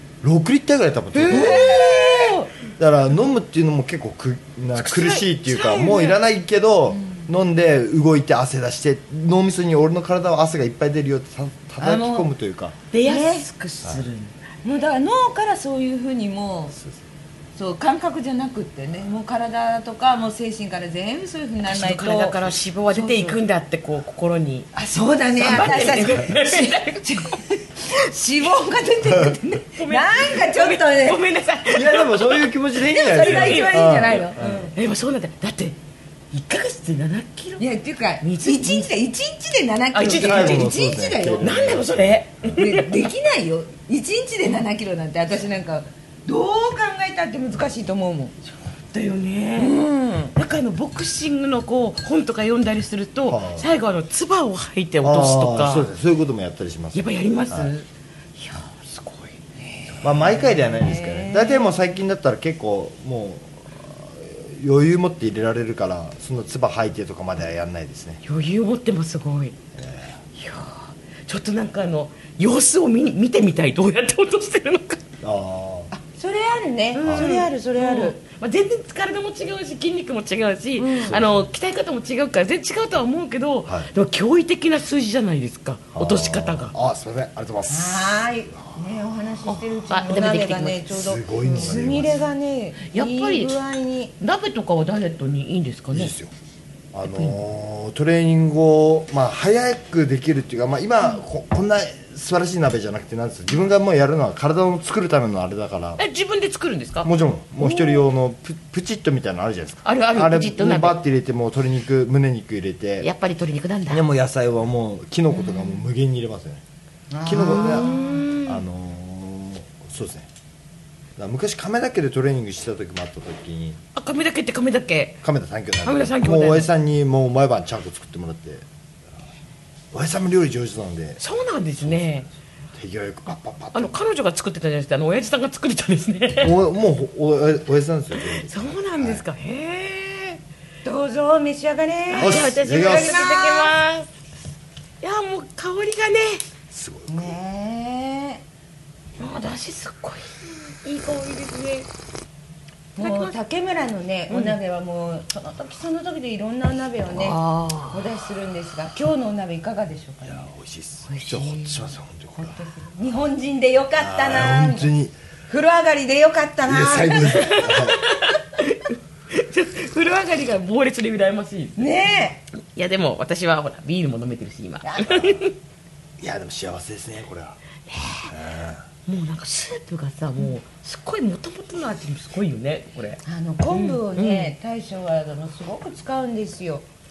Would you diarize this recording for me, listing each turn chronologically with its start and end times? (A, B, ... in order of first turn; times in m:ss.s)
0:00.2-0:02.0 A
0:01.1-0:02.5 B
0:01.3-0:02.3 C
0:02.8-0:12.8 A
0:04.8-0:06.2 C
0:06.9-0:07.3 B
0:11.8-0:12.3 B
0:12.9-0:14.4 C
0:13.0-0:13.4 B
0:14.6-0:16.8 B
0:16.8-0:17.0 A
0:17.6-0:22.4 B
0:21.7-0:24.7 C
0:22.9-0:23.4 B
0:24.7-0:31.2 B
0:25.4-0:27.2 C
0:29.1-0:29.3 A
0:29.8-0:35.8 C
0:31.7-0:34.7 A
0:32.8-0:34.7 B
0:36.3-0:37.6 C
0:37.6-0:41.7 B
0:38.2-0:38.9 C
0:39.9-0:40.7 C
0:40.2-0:42.5 A
0:41.4-0:43.0 C
0:42.6-0:48.3 B
0:48.9-0:49.8 C
0:49.6-0:50.3 B
0:50.4-0:55.9 C
0:53.3-0:53.7 A
0:55.0-0:57.7 A
0:56.9-0:59.4 C
0:59.7-1:01.7 B
1:00.0-1:08.2 A
1:08.2-1:09.5 C
1:09.8-1:10.2 A
1:10.4-1:15.0 C
1:15.2-1:15.9 A
1:15.9-1:18.2 B
1:16.9-1:26.8 C
1:17.0-1:17.3 A
1:20.8-1:21.2 B
1:21.1-1:21.5 A
1:25.9-1:28.8 A
1:27.7-1:34.1 B
1:29.5-1:30.9 C
1:30.9-1:32.2 A
1:32.9-1:33.6 C
1:34.2-1:36.1 C
1:35.9-1:36.3 A
1:36.9-1:46.0 A
1:37.1-1:37.4 C
1:46.0-1:47.1 C
1:47.0-1:53.1 A
1:47.6-1:48.1 B
1:49.8-1:51.0 C
1:53.0-1:54.1 C
1:53.9-1:56.6 A
1:57.1-1:58.2 B
1:57.2-2:00.3 A
1:57.3-1:58.6 C
2:01.2-2:03.8 A
2:04.0-2:05.2 C
2:05.2-2:08.6 A
2:05.8-2:06.7 C
2:09.9-2:11.2 A
2:11.2-2:12.3 C
2:11.8-2:12.2 A
2:12.8-2:14.0 A
2:13.7-2:16.6 C
2:16.4-2:19.2 A
2:18.2-2:20.4 C
2:20.8-2:23.8 B
2:22.1-2:24.1 C
2:22.2-2:23.2 A
2:25.0-2:26.4 C
2:26.7-2:27.3 A
2:27.1-2:28.4 B
2:29.2-2:31.9 C
2:33.0-2:33.3 C
2:33.0-2:40.5 B
2:34.3-2:34.6 C
2:37.1-2:38.0 C
2:40.2-2:42.6 A
2:41.1-2:41.9 C
2:42.4-2:44.9 B
2:44.0-2:45.2 A
2:45.5-2:47.8 B
2:46.6-2:48.0 A
2:47.3-2:55.6 C
2:51.8-2:52.4 B
2:54.8-2:55.1 B
2:55.1-2:55.4 A
2:56.2-2:57.6 A
2:57.9-2:58.3 C
2:58.2-2:58.8 A
2:59.1-3:04.5 C
3:03.2-3:06.8 B